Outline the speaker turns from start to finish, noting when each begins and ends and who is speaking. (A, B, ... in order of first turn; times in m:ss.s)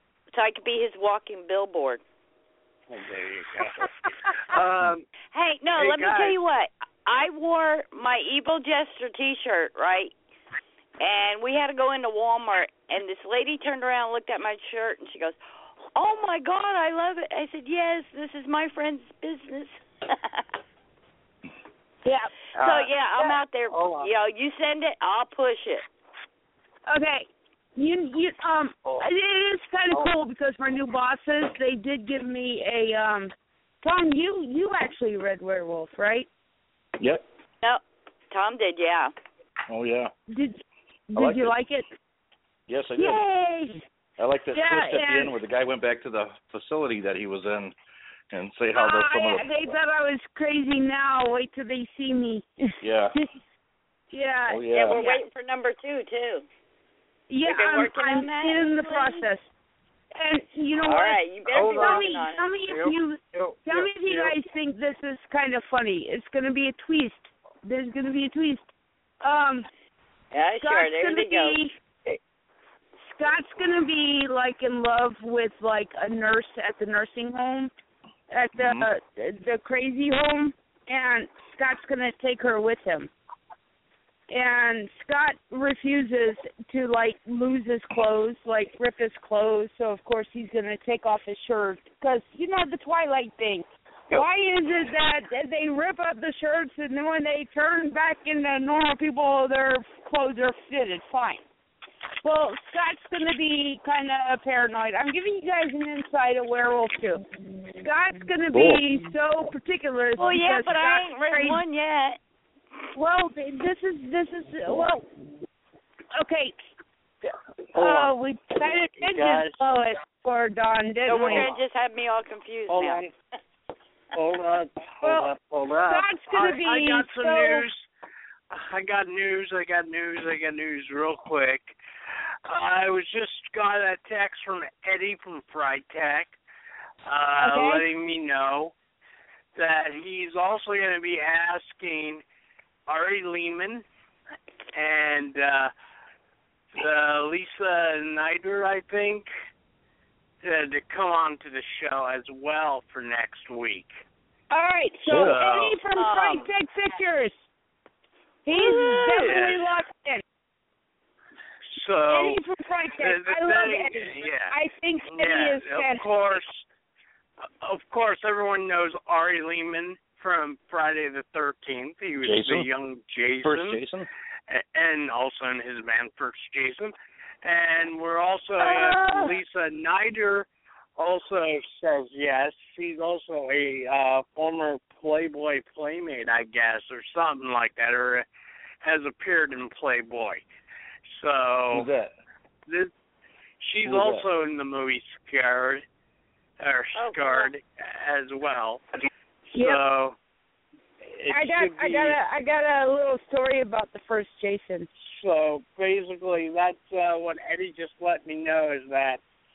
0:00.3-0:02.0 A
0:02.9-0:05.0 B
0:05.3-0:10.1 A
0:05.7-0:06.4 B
0:11.0-0:15.4 A
0:15.9-0:20.4 A
0:22.0-0:22.3 C
0:22.6-0:22.9 B
0:22.6-0:25.8 A
0:23.7-0:24.1 B
0:26.9-0:36.3 C
0:37.6-0:39.1 A
0:39.7-0:40.1 D
0:40.3-0:41.9 C
0:41.2-0:41.5 D
0:42.7-0:43.2 D
0:43.0-0:43.8 C
0:44.2-0:47.8 D
0:44.5-0:45.3 C
0:48.3-0:49.7 D
0:48.7-0:53.3 C
0:52.8-0:53.2 D
0:54.1-0:55.2 C
0:54.5-0:55.0 D
0:54.7-0:56.4 A
0:57.3-0:59.5 C
0:57.4-0:59.2 A
1:00.1-1:08.6 C
1:00.8-1:02.4 A
1:01.5-1:02.1 B
1:02.7-1:04.4 B
1:09.2-1:09.7 C
1:10.3-1:11.6 A
1:10.6-1:11.8 C
1:13.1-1:17.7 C
1:18.3-1:23.1 C
1:18.6-1:18.9 D
1:24.3-1:41.4 C
1:42.2-1:51.6 C
1:48.5-1:48.8 D
1:50.2-1:52.2 A
1:52.9-1:55.1 C
1:56.2-1:56.6 C
1:57.7-2:01.5 C
1:57.8-1:58.1 B
1:58.9-1:59.6 B
2:01.1-2:03.1 A
2:01.2-2:01.6 B
2:02.7-2:03.1 B
2:04.1-2:07.8 B
2:05.0-2:05.3 C
2:05.9-2:07.7 C
2:08.5-2:11.8 B
2:12.4-2:16.4 B
2:17.0-2:18.7 B
2:17.4-2:17.8 C
2:19.5-2:22.2 B
2:22.9-2:23.8 B
2:24.7-2:25.7 B
2:26.7-2:29.3 B
2:30.4-2:33.9 B
2:34.5-2:37.3 C
2:35.1-2:35.4 D
2:35.1-2:35.8 B
2:35.9-2:36.5 A
2:38.4-2:40.2 C
2:38.5-2:39.7 B
2:41.7-2:42.4 B
2:42.1-2:46.1 C
2:43.0-2:44.5 B
2:45.1-2:46.7 B
2:47.6-2:53.8 B
2:52.2-2:52.7 D
2:53.4-2:54.1 D
2:54.5-3:08.2 B
2:58.6-2:59.3 C
3:08.8-3:10.4 B
3:11.1-3:11.9 B
3:11.7-3:12.1 D
3:13.6-3:15.8 B
3:13.8-3:14.2 D
3:16.6-3:18.8 B
3:17.0-3:17.5 A
3:19.5-3:20.2 B
3:19.5-3:19.8 C
3:21.1-3:22.2 B
3:21.3-3:24.9 C
3:25.0-3:29.2 B